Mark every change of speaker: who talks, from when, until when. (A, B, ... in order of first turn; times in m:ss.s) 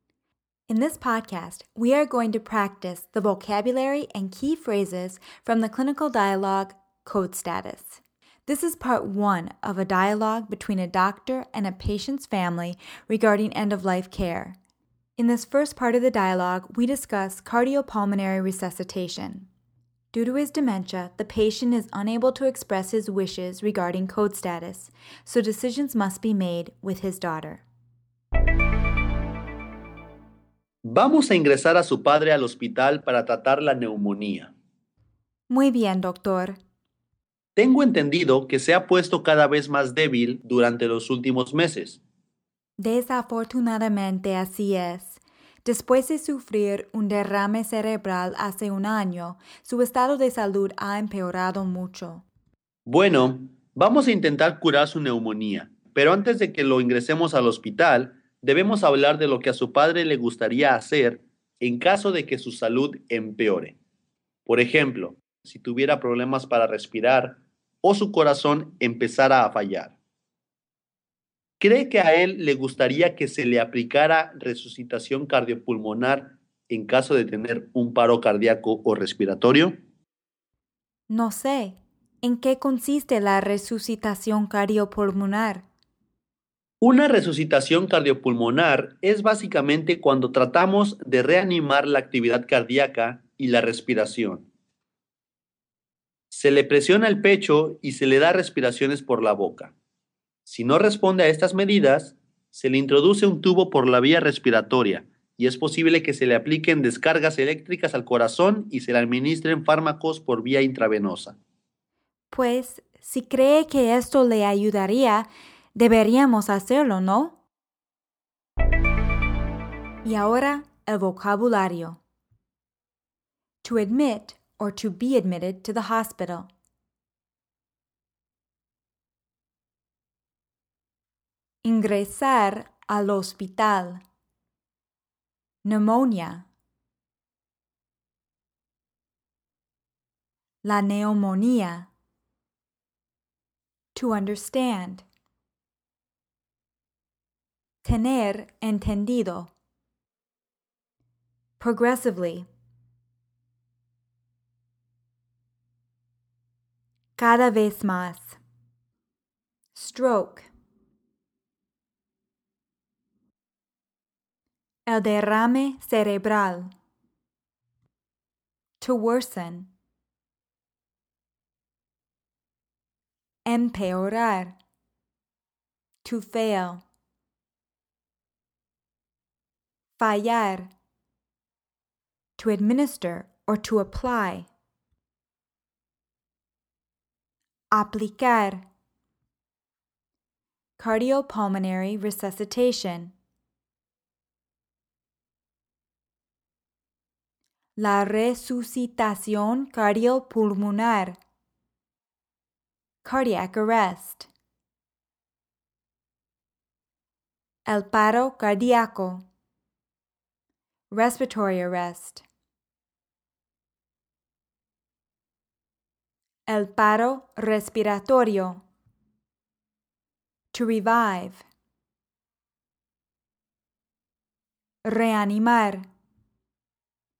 0:00.7-0:14.6 A
0:15.2-0:19.5 A
0:20.1-0:27.6 A
0:30.8-0:34.5 B
0:35.5-0:36.6 A
0:37.6-0:42.0 B
0:42.8-0:52.2 A
0:52.9-1:03.8 B
1:04.5-1:09.9 B
1:11.6-1:19.8 B
1:21.1-1:25.6 A
1:26.8-1:34.5 B
1:36.3-1:39.7 B
1:40.5-1:51.4 B
1:52.3-1:57.4 A
2:00.0-2:02.0 A
2:03.6-2:06.5 A
2:11.6-2:14.0 A
2:15.6-2:16.4 A
2:20.6-2:21.9 A
2:23.9-2:25.0 A
2:27.8-2:29.5 A
2:31.6-2:32.5 A
2:37.2-2:38.4 A
2:39.7-2:40.5 A
2:44.9-2:46.7 A
2:48.8-2:49.7 A
2:53.4-2:54.6 A
2:56.0-2:56.8 A
3:00.0-3:00.7 A
3:02.4-3:04.5 A
3:07.7-3:08.6 A
3:10.8-3:13.1 A
3:17.8-3:21.2 A
3:23.0-3:24.3 A
3:27.7-3:29.2 A
3:30.9-3:32.2 A
3:36.5-3:38.6 A
3:40.5-3:41.4 A
3:44.8-3:45.8 A